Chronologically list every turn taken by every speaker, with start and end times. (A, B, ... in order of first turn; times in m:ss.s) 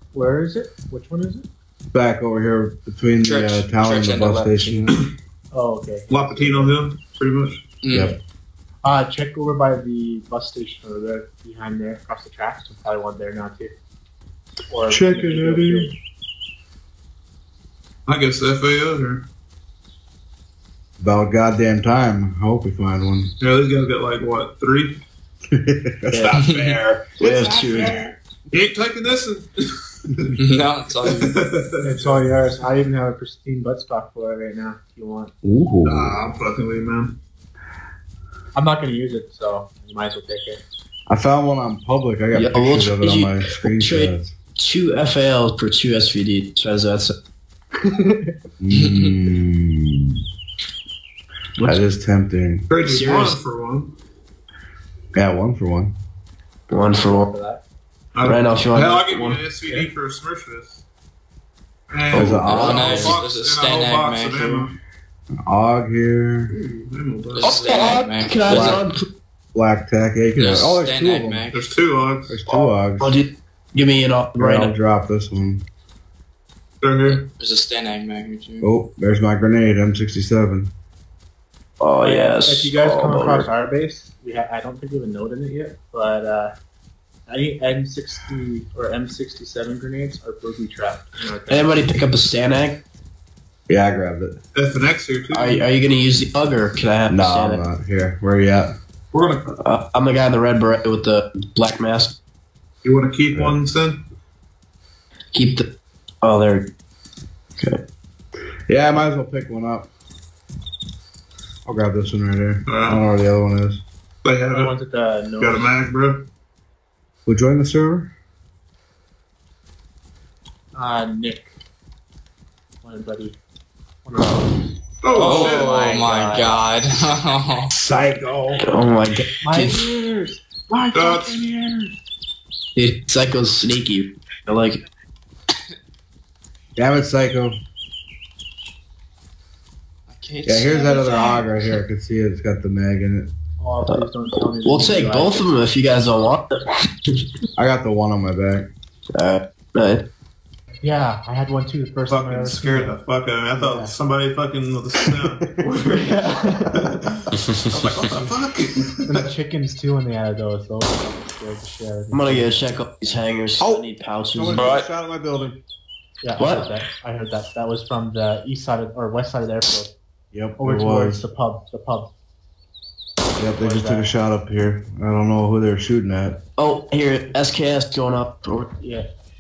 0:00.1-0:01.5 A
0:01.9-0:04.9 B
0:03.2-0:04.9 C
0:05.5-0:06.7 A
0:06.1-0:07.7 D
0:07.8-0:08.1 C
0:08.8-0:13.7 A
0:14.7-0:15.9 A
0:14.9-0:15.9 B
0:18.1-0:19.3 D
0:21.0-0:23.3 B
0:23.4-0:25.0 D
0:25.5-0:26.3 B
0:26.1-0:26.4 E
0:26.3-0:32.3 D
0:26.3-0:26.8 C
0:27.1-0:28.0 E
0:30.4-0:31.3 C
0:31.8-0:35.3 A
0:35.4-0:36.2 B
0:35.8-0:37.2 D
0:38.5-0:40.6 A
0:41.1-0:44.3 B
0:42.3-0:47.1 E
0:47.8-0:48.4 A
0:48.6-0:50.2 B
0:48.7-0:49.1 C
0:51.6-0:51.9 E
0:51.6-0:52.7 B
0:52.7-0:54.0 D
0:52.8-0:53.4 E
0:55.1-0:55.9 B
0:56.7-0:57.3 E
0:56.9-0:57.6 A
0:58.1-1:00.8 D
0:58.2-0:59.8 E
1:01.9-1:04.8 D
1:02.1-1:03.2 B
1:02.1-1:03.1 E
1:02.4-1:04.7 C
1:05.4-1:06.6 B
1:06.9-1:07.7 D
1:07.4-1:08.8 C
1:07.4-1:09.0 E
1:08.5-1:08.8 B
1:09.5-1:11.5 B
1:10.4-1:11.7 C
1:11.5-1:12.4 D
1:12.3-1:13.1 B
1:12.5-1:14.7 E
1:14.4-1:15.6 B
1:16.8-1:17.3 D
1:17.1-1:18.7 C
1:18.6-1:20.7 B
1:21.8-1:23.5 E
1:22.0-1:26.5 A
1:27.3-1:31.9 A
1:31.5-1:32.8 E
1:33.7-1:34.4 B
1:34.5-1:35.8 D
1:35.3-1:37.7 E
1:37.1-1:38.7 B
1:39.1-1:39.5 D
1:39.5-1:42.2 E
1:42.8-1:44.0 D
1:45.3-1:45.7 E
1:46.2-1:46.7 E
1:48.7-1:49.9 B
1:51.7-1:53.8 B
1:52.7-1:53.0 D
1:54.2-1:54.8 D
1:54.5-1:55.7 A
1:55.4-1:56.2 D
1:57.3-1:58.1 B
2:00.8-2:01.5 A
2:02.8-2:03.4 A
2:04.0-2:04.7 A
2:05.0-2:05.8 D
2:05.2-2:07.7 C
2:05.2-2:06.5 A
2:07.7-2:08.6 B
2:08.6-2:09.8 E
2:09.4-2:11.9 A
2:10.9-2:11.4 D
2:12.8-2:14.8 E
2:16.8-2:17.6 B
2:20.1-2:21.8 C
2:20.4-2:23.3 B
2:23.6-2:25.6 A
2:23.9-2:26.8 E
2:27.6-2:28.7 B
2:29.2-2:30.0 E
2:30.8-2:33.0 A
2:32.1-2:39.3 D
2:33.5-2:34.0 A
2:39.1-2:42.6 A
2:42.1-2:44.7 E
2:43.6-2:45.6 B
2:44.6-2:44.9 C
2:46.2-2:50.0 A
2:46.4-2:46.7 E
2:50.3-2:51.2 B
2:50.6-2:52.1 A
2:53.4-2:56.4 B
2:53.6-2:54.1 A
2:56.6-2:58.7 E
2:58.8-2:59.1 A